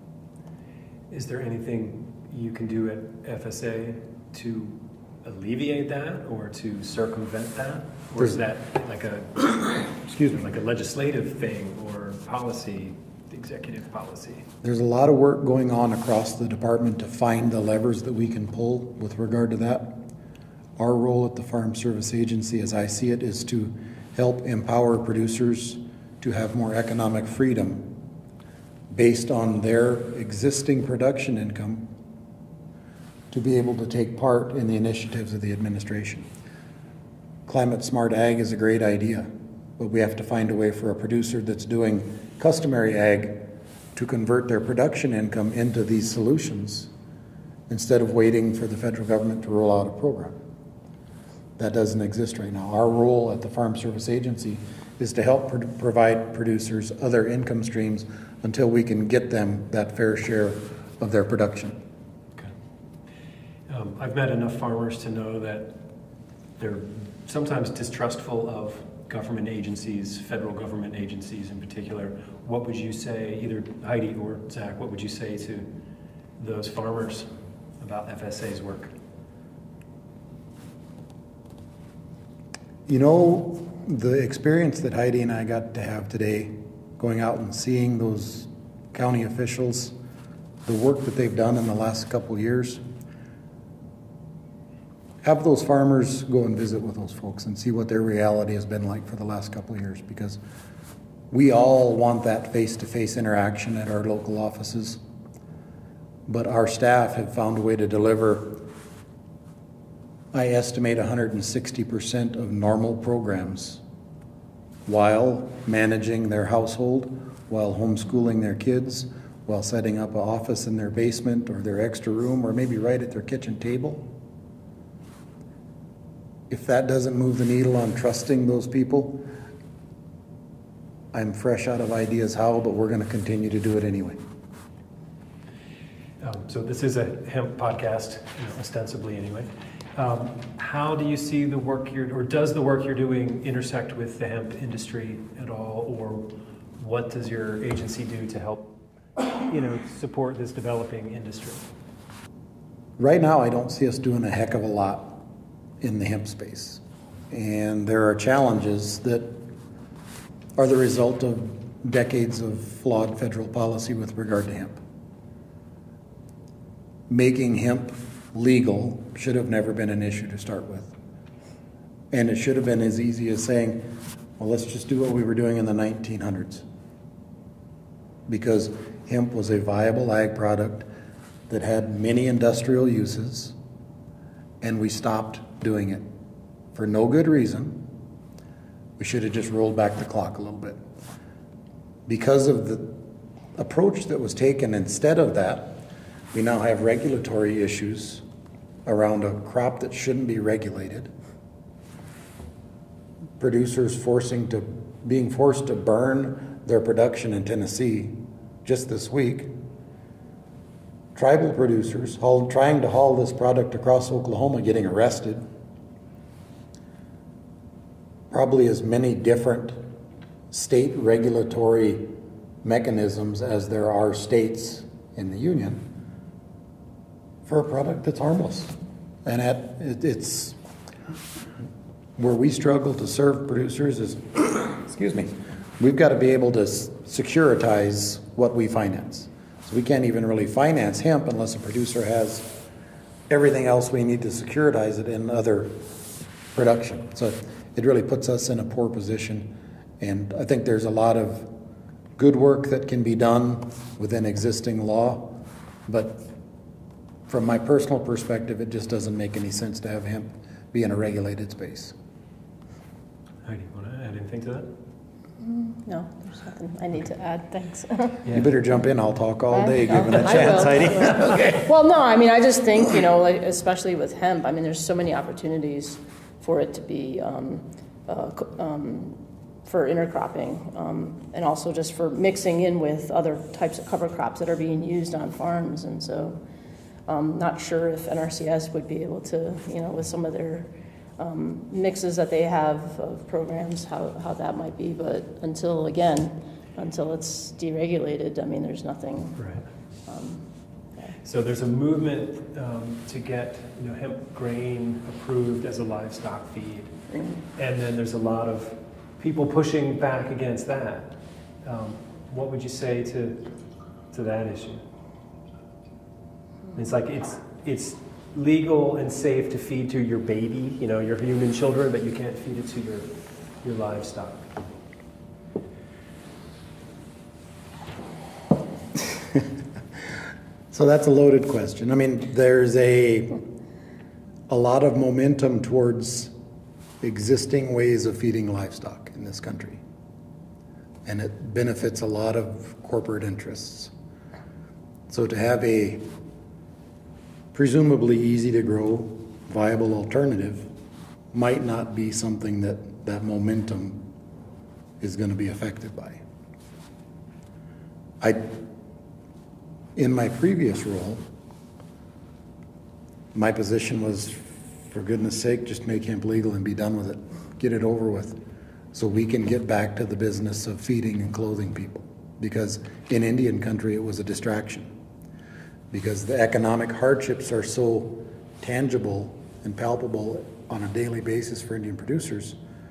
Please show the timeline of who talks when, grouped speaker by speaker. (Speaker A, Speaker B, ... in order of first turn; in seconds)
Speaker A: 1.1-14.4, 63.7-65.8, 66.6-75.7, 76.4-77.3, 77.8-78.9, 136.2-151.7, 263.4-264.7, 268.2-268.5, 269.9-271.6, 299.4-299.6, 301.2-306.9, 307.6-313.5, 314.1-314.8, 316.7-324.5
Speaker B: 14.6-20.0, 20.8-27.9, 28.9-31.9, 33.3-36.3, 37.5-46.9, 47.7-50.4, 51.6-61.8, 82.9-90.0, 90.7-92.8, 95.2-100.4, 101.3-105.0, 106.3-108.7, 110.3-113.8, 114.9-124.1, 126.5-129.3, 131.1-134.2, 153.0-155.2, 155.8-159.5, 160.6-164.8, 167.1-170.9, 172.1-176.6, 178.3-180.9, 181.5-183.6, 184.6-186.1, 186.7-187.9, 189.0-190.8, 192.1-193.0, 193.6-195.8, 196.3-198.2, 198.9-201.1, 203.4-209.5, 211.2-215.4, 218.3-219.8, 220.5-222.1, 222.6-225.9, 227.4-230.6, 232.2-242.5, 243.3-245.8, 246.5-251.5, 252.2-256.3, 257.3-261.9, 268.3-271.6, 330.7-333.4, 334.5-336.3, 337.0-339.8, 341.1-343.9, 345.1-346.1, 347.5-350.7, 351.3-354.1, 355.0-356.2, 358.2-358.6, 360.0-361.2, 363.3-368.4, 368.9-374.9, 375.9-382.6
Speaker C: 265.4-268.2, 269.5-286.4, 287.1-299.5, 300.1-301.2, 307.1-307.4